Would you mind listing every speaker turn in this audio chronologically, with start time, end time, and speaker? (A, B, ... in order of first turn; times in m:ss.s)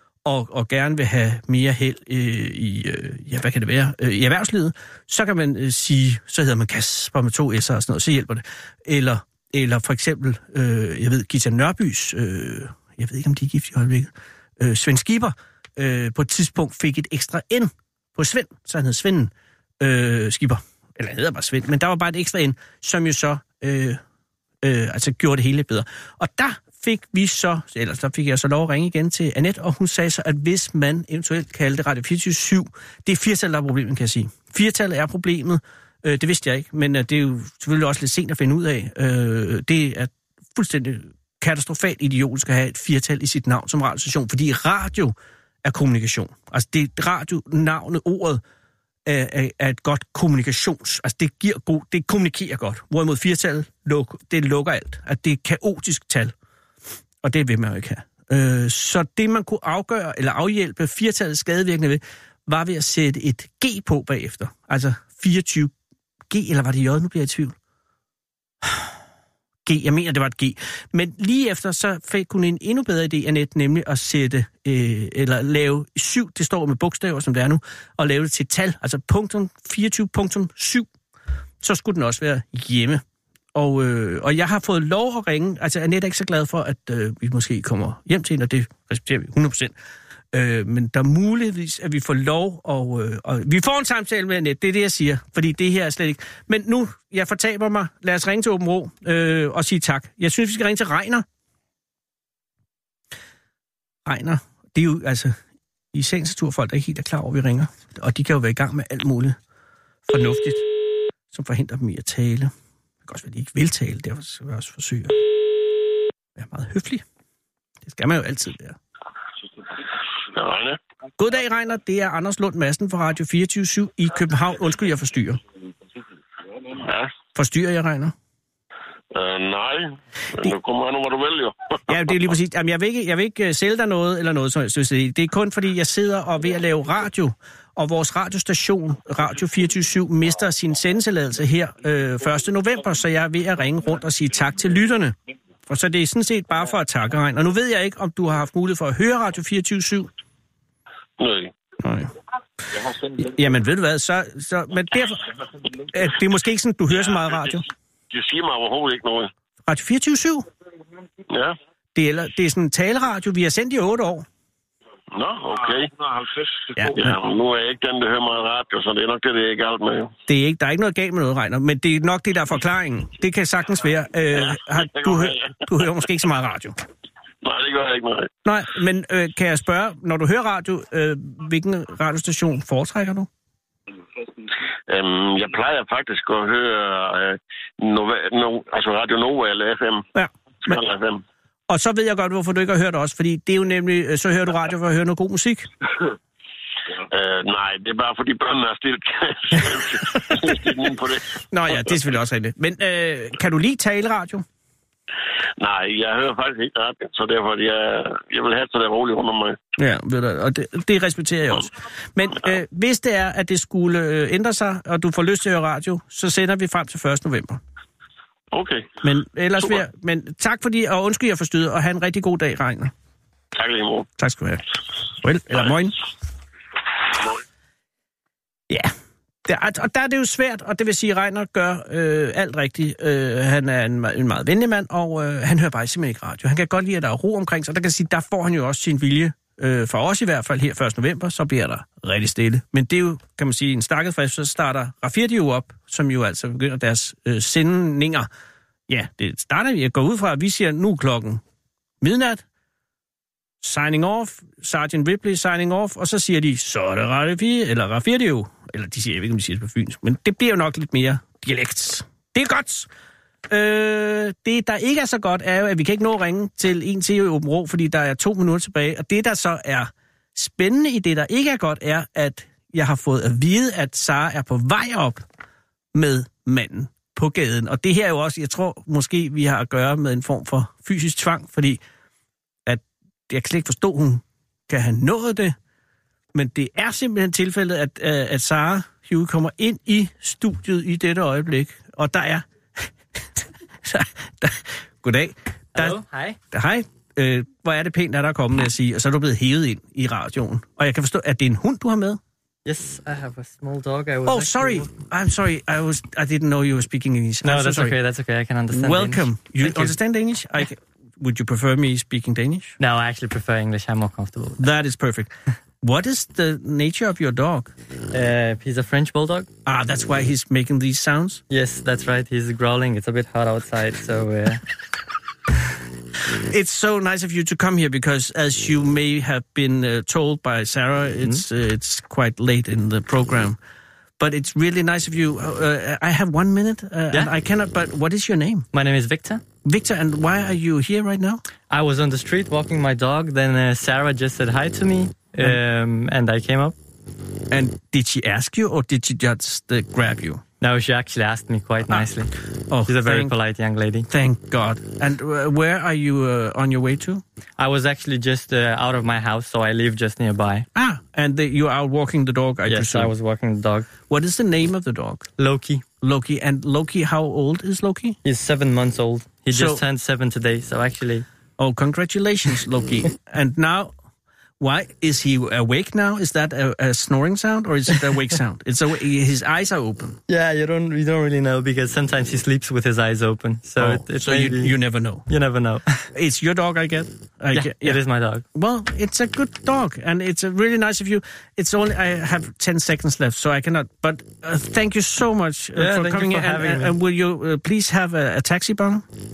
0:00.2-0:24.0 A
0:24.6-0:48.4 A
0:49.0-0:56.3 A
0:57.2-1:05.7 A
1:06.3-1:07.6 A
1:09.6-1:20.9 A
1:21.6-1:23.0 A
1:23.5-1:29.7 A
1:30.3-1:41.2 A
1:44.0-1:45.4 A
1:45.9-1:49.4 A
1:50.1-1:50.6 A
1:51.3-1:52.5 A
1:53.0-1:55.2 A
1:56.4-1:57.0 A
1:57.8-1:58.8 A
2:00.3-2:00.8 B
2:01.2-2:05.4 A
2:06.7-2:07.1 B
2:07.3-2:08.1 A
2:09.1-2:11.6 B
2:11.9-2:25.2 A
2:25.7-2:30.1 A
2:31.2-2:31.5 B
2:31.8-2:32.1 A
2:32.8-2:37.6 A
2:38.1-2:39.3 B
2:39.6-2:40.5 A
2:41.3-2:41.6 B
2:41.9-2:44.2 A
2:45.1-2:50.1 B
2:46.7-2:47.2 A
2:50.3-2:56.8 A
2:57.4-2:58.3 B
2:58.4-3:03.3 A
3:04.9-3:10.1 B
3:10.1-3:10.8 A
3:10.6-3:11.2 B
3:11.7-3:15.7 A
3:17.1-3:22.0 B
3:19.5-3:20.6 A
3:21.5-3:24.4 A
3:25.6-3:29.6 B
3:29.8-3:37.6 A
3:38.5-3:38.9 B
3:39.0-3:42.9 A
3:43.6-3:44.1 B
3:44.2-3:44.6 A
3:45.1-3:46.0 A
3:49.4-4:08.3 A
4:08.9-4:11.4 A
4:12.0-4:12.4 A
4:13.6-4:22.9 A
4:23.5-4:35.2 A
4:35.9-4:41.8 A
4:42.6-4:45.6 A
4:46.3-5:02.2 A
4:55.8-4:56.4 C
5:02.6-5:04.9 C
5:04.2-5:08.0 A
5:07.4-5:10.0 C
5:08.7-5:12.8 A
5:12.8-5:14.6 C
5:14.6-5:17.7 A
5:18.1-5:19.5 C
5:19.6-5:21.4 A
5:21.5-5:24.6 C
5:26.3-5:33.6 A
5:34.2-5:38.7 A
5:38.7-5:39.4 C
5:39.6-5:41.4 A
5:41.7-5:46.8 C
5:47.5-5:50.4 A
5:50.6-5:52.3 C
5:52.7-5:53.3 A
5:52.8-5:54.1 C
5:54.1-5:57.2 A
5:57.6-6:00.7 C
6:00.7-6:03.1 A
6:02.7-6:03.9 C
6:04.1-6:05.3 A
6:05.4-6:05.8 C
6:06.0-6:08.2 A
6:08.2-6:11.2 C
6:09.5-6:09.8 A
6:11.6-6:13.9 A
6:14.6-6:20.2 A
6:20.3-6:26.1 C
6:23.8-6:25.3 A
6:26.1-6:39.0 A
6:27.5-6:28.4 C
6:35.8-6:36.9 C